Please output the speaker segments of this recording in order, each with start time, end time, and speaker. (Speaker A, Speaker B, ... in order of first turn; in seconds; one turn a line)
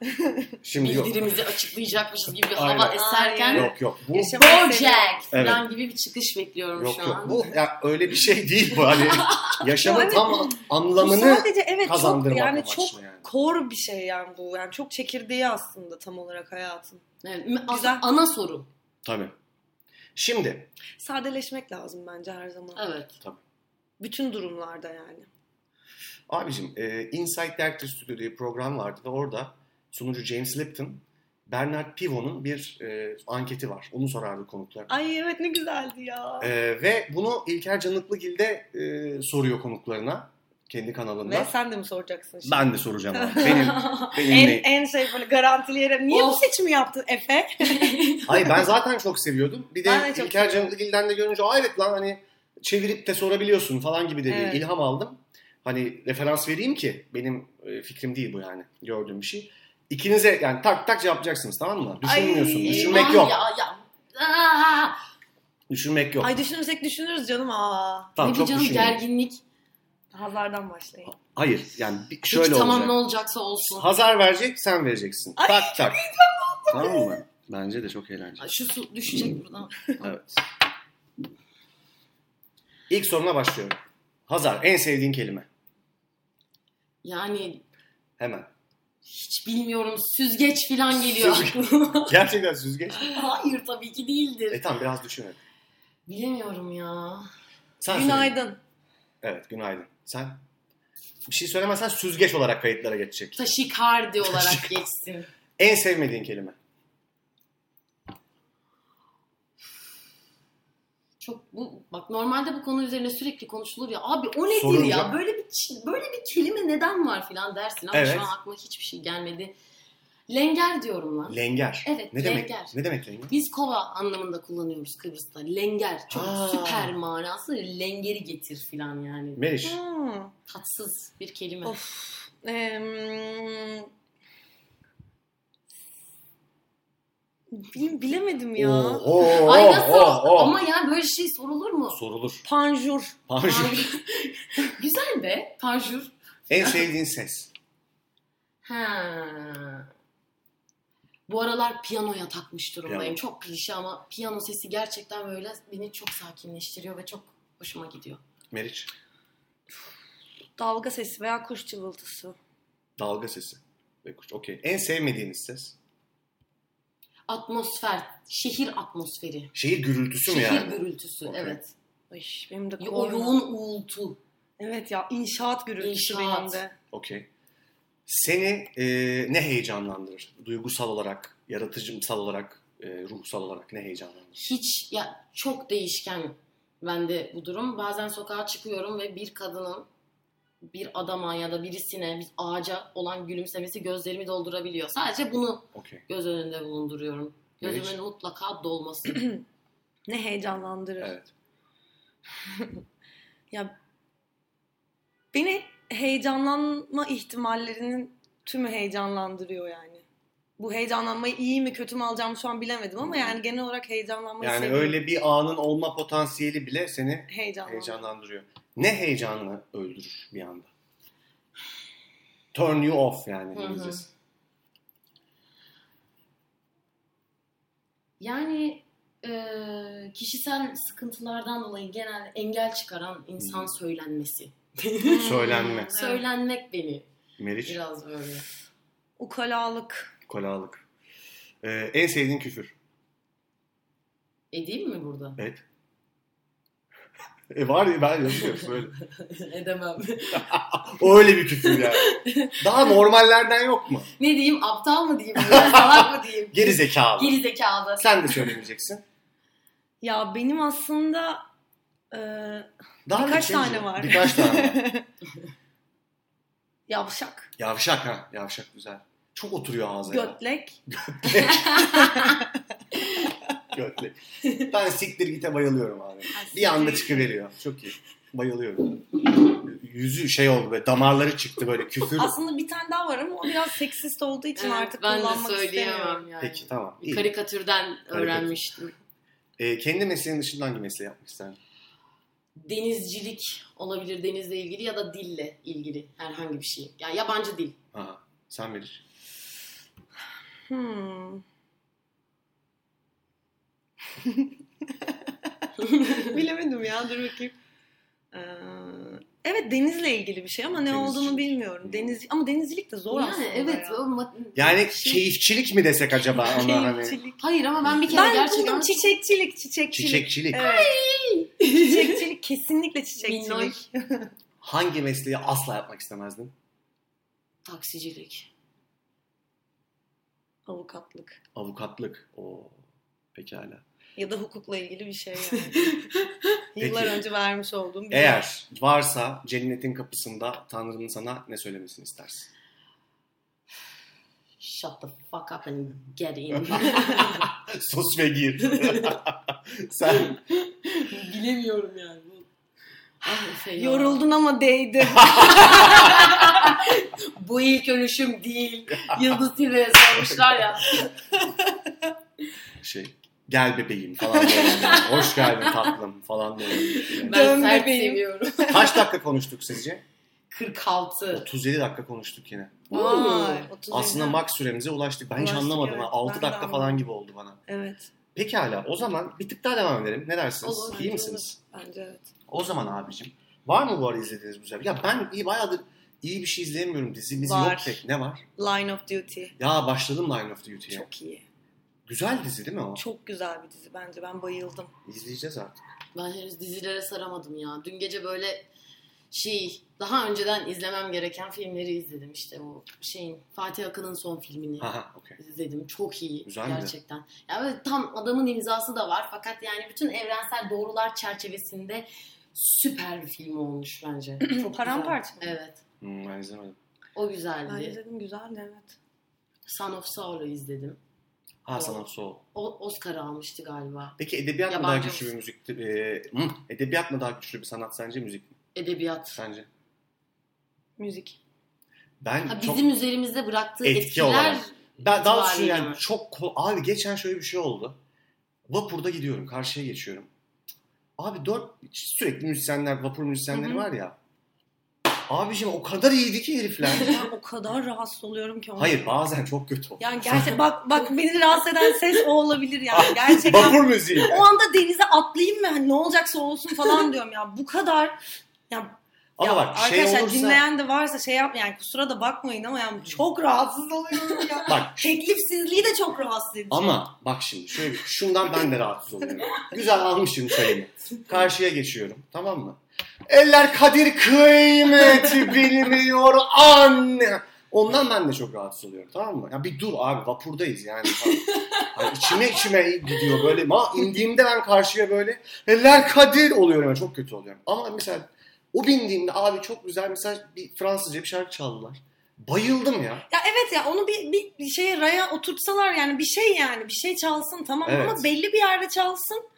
Speaker A: 0.6-1.2
Speaker B: 0.8-3.7
Speaker A: 2.5-3.0
Speaker C: 2.9-5.2
Speaker A: 3.5-4.4
Speaker B: 4.3-7.5
Speaker A: 5.3-5.6
Speaker A: 6.8-13.3
Speaker B: 8.9-9.6
Speaker C: 9.8-17.0
Speaker B: 17.2-18.7
Speaker C: 17.7-18.0
Speaker A: 19.0-19.4
Speaker A: 20.2-20.7
Speaker C: 21.0-22.8
Speaker B: 22.8-23.1
Speaker C: 24.0-25.3
Speaker A: 26.3-34.9
Speaker C: 34.9-36.5
Speaker A: 36.4-41.5
Speaker C: 41.2-48.0
Speaker A: 42.4-44.7
Speaker B: 46.1-46.5
Speaker B: 47.6-48.5
Speaker A: 48.3-63.4
Speaker C: 49.9-50.7
Speaker C: 54.3-54.6
Speaker C: 62.0-63.1
Speaker B: 62.6-65.0
Speaker A: 65.7-66.4
Speaker C: 66.2-68.2
Speaker A: 68.2-69.0
Speaker B: 68.2-69.4
Speaker C: 70.1-71.1
Speaker A: 71.1-73.0
Speaker B: 72.3-73.9
Speaker A: 73.6-76.0
Speaker C: 75.4-77.2
Speaker A: 76.7-78.5
Speaker B: 78.4-80.1
Speaker A: 80.0-80.4
Speaker A: 82.9-85.5
Speaker B: 87.0-87.6
Speaker A: 88.2-88.5
Speaker B: 89.0-92.2
Speaker A: 91.0-93.1
Speaker B: 93.0-94.6
Speaker A: 94.5-95.4
Speaker B: 96.1-97.3
Speaker A: 97.8-98.3
Speaker C: 97.9-98.6
Speaker A: 99.2-100.4
Speaker A: 101.3-103.4
Speaker B: 103.4-105.3
Speaker A: 104.2-104.8
Speaker A: 105.6-106.6
Speaker B: 111.2-119.5
Speaker A: 114.5-115.2
Speaker A: 117.9-118.3
Speaker B: 120.3-122.8
Speaker A: 121.3-123.3
Speaker B: 123.3-129.4
Speaker A: 126.1-127.0
Speaker A: 129.4-129.8
Speaker C: 129.6-130.3
Speaker B: 130.5-131.8
Speaker C: 131.6-133.9
Speaker C: 137.5-139.1
Speaker A: 138.6-140.6
Speaker B: 139.2-142.0
Speaker A: 141.9-142.4
Speaker C: 142.4-143.2
Speaker A: 143.3-143.9
Speaker B: 143.4-146.8
Speaker A: 146.5-147.5
Speaker B: 148.6-149.9
Speaker B: 151.3-158.2
Speaker A: 152.9-153.2
Speaker A: 158.5-158.9
Speaker C: 160.6-162.4
Speaker A: 163.0-165.8
Speaker B: 167.3-169.5
Speaker A: 169.6-171.6
Speaker B: 170.3-171.7
Speaker C: 172.1-173.4
Speaker B: 172.8-174.2
Speaker C: 174.6-176.8
Speaker B: 175.8-176.6
Speaker A: 176.9-177.3
Speaker A: 178.1-184.4
Speaker B: 184.4-189.9
Speaker B: 190.7-199.3
Speaker A: 195.7-196.1
Speaker A: 197.6-198.0
Speaker C: 199.1-199.4
Speaker C: 200.1-201.2
Speaker A: 201.0-201.3
Speaker C: 205.3-210.0
Speaker C: 210.6-215.0
Speaker A: 213.0-213.4
Speaker A: 214.4-220.7
Speaker C: 217.3-218.1
Speaker A: 222.5-224.1
Speaker B: 223.5-224.1
Speaker B: 228.2-237.1
Speaker A: 233.4-233.7
Speaker C: 235.0-236.2
Speaker A: 235.2-235.9
Speaker A: 237.4-237.8
Speaker B: 237.7-238.5
Speaker C: 239.2-240.1
Speaker A: 240.3-240.8
Speaker A: 241.6-242.7
Speaker B: 244.5-245.4
Speaker A: 245.4-245.6
Speaker A: 247.5-248.9
Speaker B: 249.2-250.9
Speaker A: 250.4-254.1
Speaker B: 251.6-252.9
Speaker B: 254.2-258.5
Speaker A: 255.4-257.4
Speaker A: 258.0-259.0
Speaker C: 260.0-261.4
Speaker C: 262.1-265.1
Speaker A: 263.1-264.8
Speaker C: 266.9-267.5
Speaker A: 267.6-272.1
Speaker C: 270.1-270.8
Speaker B: 271.4-272.1
Speaker C: 272.0-272.4
Speaker A: 273.7-282.4
Speaker C: 276.3-277.3
Speaker C: 282.2-286.2
Speaker B: 284.6-288.9
Speaker A: 286.4-287.3
Speaker A: 288.1-288.5
Speaker A: 289.6-291.6
Speaker B: 292.6-297.8
Speaker A: 297.9-299.0
Speaker C: 300.7-301.4
Speaker B: 305.8-306.4
Speaker C: 306.2-307.6
Speaker C: 308.3-314.0
Speaker A: 310.7-312.2
Speaker B: 313.1-315.3
Speaker A: 314.6-317.2
Speaker C: 316.3-317.4
Speaker B: 317.4-319.1
Speaker C: 318.1-320.9
Speaker A: 319.9-320.7
Speaker B: 320.6-322.2
Speaker C: 321.6-324.3
Speaker B: 323.2-323.8
Speaker A: 324.6-326.5
Speaker B: 327.7-328.5
Speaker C: 330.7-331.4
Speaker A: 331.6-332.8
Speaker A: 333.4-333.8
Speaker C: 334.2-336.0
Speaker C: 336.8-338.4
Speaker A: 336.8-337.2
Speaker A: 338.1-342.5
Speaker B: 344.6-347.5
Speaker A: 346.6-350.4
Speaker B: 348.7-349.2
Speaker B: 350.1-352.5
Speaker B: 353.2-354.2
Speaker C: 353.8-356.4
Speaker A: 355.2-355.6
Speaker B: 355.3-361.1
Speaker C: 361.4-361.8
Speaker A: 362.8-367.3
Speaker C: 364.4-364.9
Speaker B: 364.6-365.9
Speaker B: 366.7-369.0
Speaker C: 367.3-368.8
Speaker A: 368.7-370.0
Speaker B: 370.5-371.5
Speaker A: 371.3-372.9
Speaker B: 372.9-373.7
Speaker C: 372.9-374.4
Speaker A: 373.9-377.6
Speaker C: 375.4-377.0
Speaker C: 377.7-378.1
Speaker A: 378.4-381.6
Speaker B: 380.6-381.0
Speaker C: 380.8-382.3
Speaker A: 382.5-388.4
Speaker C: 387.4-388.0
Speaker C: 388.6-389.6
Speaker A: 389.6-391.1
Speaker C: 390.9-391.4
Speaker A: 392.1-393.0
Speaker C: 393.0-394.9
Speaker A: 395.1-395.8
Speaker B: 396.1-398.7
Speaker B: 399.3-415.8
Speaker A: 404.8-405.4
Speaker A: 406.5-406.9
Speaker C: 414.4-415.5
Speaker A: 416.0-416.8
Speaker B: 417.1-418.0
Speaker C: 417.7-419.0
Speaker B: 419.7-421.0
Speaker A: 421.6-422.4
Speaker B: 421.7-424.2
Speaker A: 424.2-428.6
Speaker B: 424.7-425.3
Speaker B: 428.8-429.4
Speaker A: 429.3-429.7
Speaker C: 431.0-431.4
Speaker A: 432.2-432.8
Speaker B: 432.5-436.0
Speaker A: 433.8-438.0
Speaker A: 438.7-440.3
Speaker A: 441.2-444.2
Speaker C: 443.5-443.9
Speaker A: 445.3-447.2
Speaker C: 446.9-449.1
Speaker A: 448.8-450.6
Speaker C: 450.0-467.0
Speaker A: 452.9-454.4
Speaker A: 459.4-460.6
Speaker A: 464.7-465.1
Speaker A: 466.7-493.3
Speaker B: 481.2-482.6
Speaker B: 483.2-483.6
Speaker C: 493.3-499.4
Speaker A: 497.9-498.3